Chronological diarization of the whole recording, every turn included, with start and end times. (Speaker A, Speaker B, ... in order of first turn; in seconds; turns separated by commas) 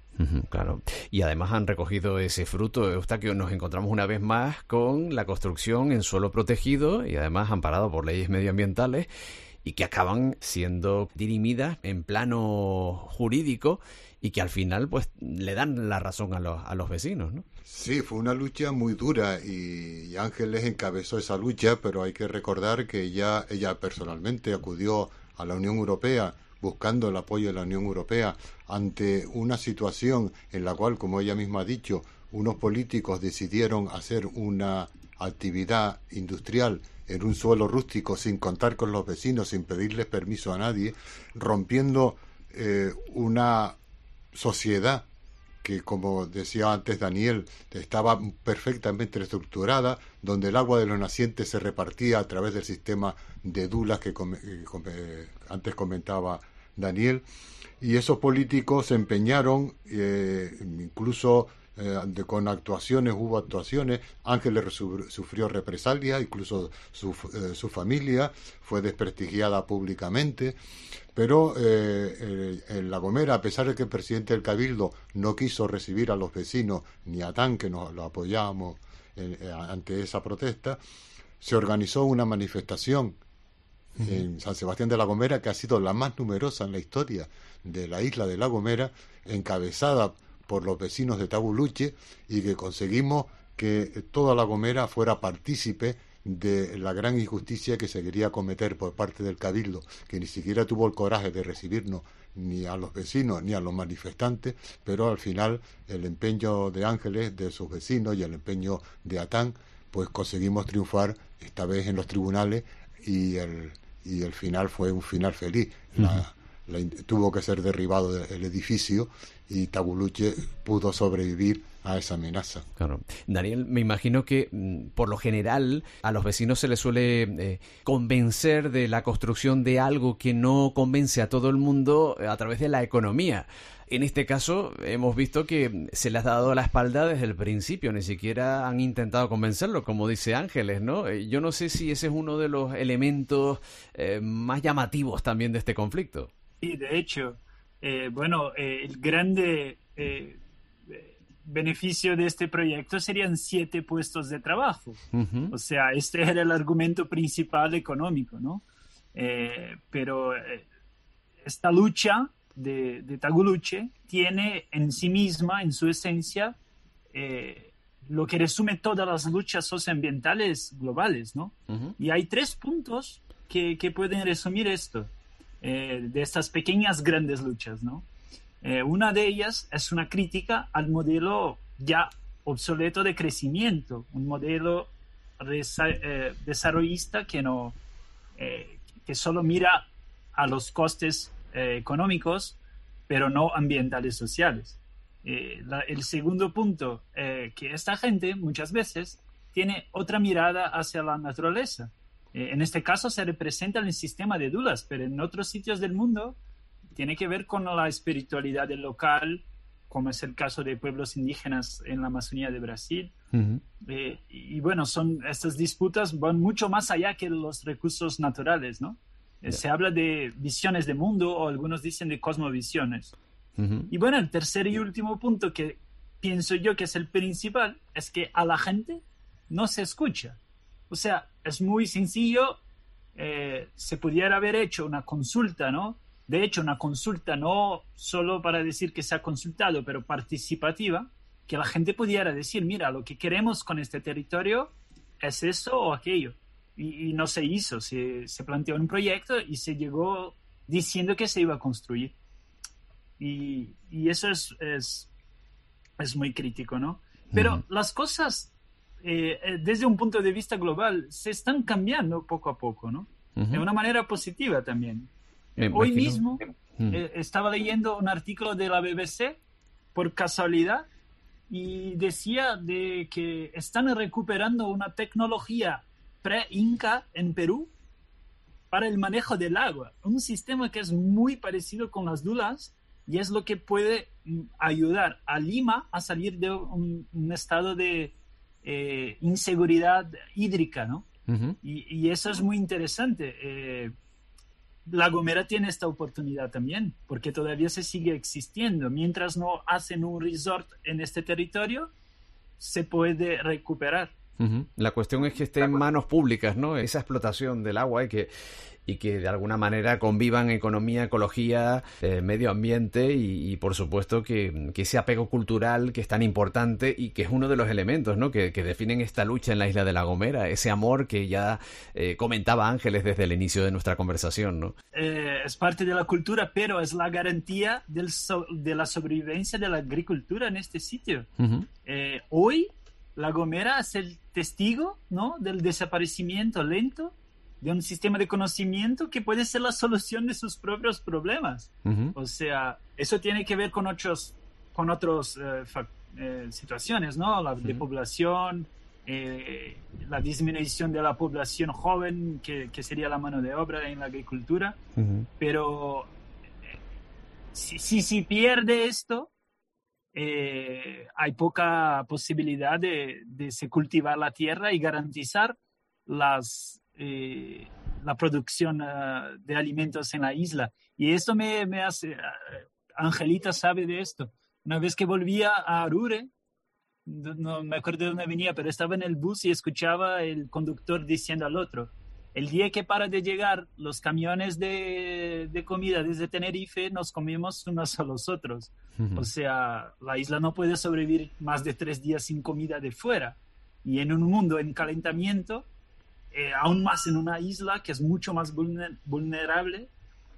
Speaker A: 0.2-9.1, Speaker A: 9.6-17.4, Speaker B: 17.6-43.8, Speaker B: 44.3-45.1, Speaker B: 45.6-57.2, Speaker B: 57.8-70.6, Speaker B: 71.1-80.8, Speaker B: 81.4-83.2, Speaker B: 84.0-122.6, Speaker A: 122.8-146.3, Speaker C: 146.6-155.0, Speaker A: 155.1-155.5, Speaker C: 155.5-160.7, Speaker C: 161.4-166.6, Speaker C: 167.1-178.1, Speaker A: 171.7-171.9, Speaker C: 178.6-187.8, Speaker C: 188.4-206.4, Speaker C: 206.9-213.1, Speaker A: 213.3-213.6, Speaker C: 213.8-223.1, Speaker A: 223.6-223.9, Speaker C: 223.9-230.4, Speaker C: 230.9-232.6, Speaker C: 233.2-252.2, Speaker C: 253.2-255.1, Speaker C: 256.0-265.1, Speaker A: 257.3-257.6, Speaker A: 263.4-263.6, Speaker A: 265.6-266.2, Speaker C: 265.7-269.4, Speaker C: 269.9-270.9, Speaker C: 271.5-277.7, Speaker C: 278.7-291.1, Speaker A: 291.3-291.6, Speaker C: 291.6-293.9, Speaker C: 294.9-301.9, Speaker C: 302.6-304.1, Speaker A: 304.4-308.3, Speaker A: 308.9-324.8, Speaker C: 324.9-331.3, Speaker A: 331.4-331.7, Speaker C: 331.8-354.8, Speaker A: 341.9-342.1, Speaker A: 354.9-355.3, Speaker C: 355.4-356.1, Speaker C: 357.5-359.3, Speaker C: 360.1-376.3, Speaker C: 377.1-395.7, Speaker A: 389.0-389.3, Speaker C: 396.3-399.9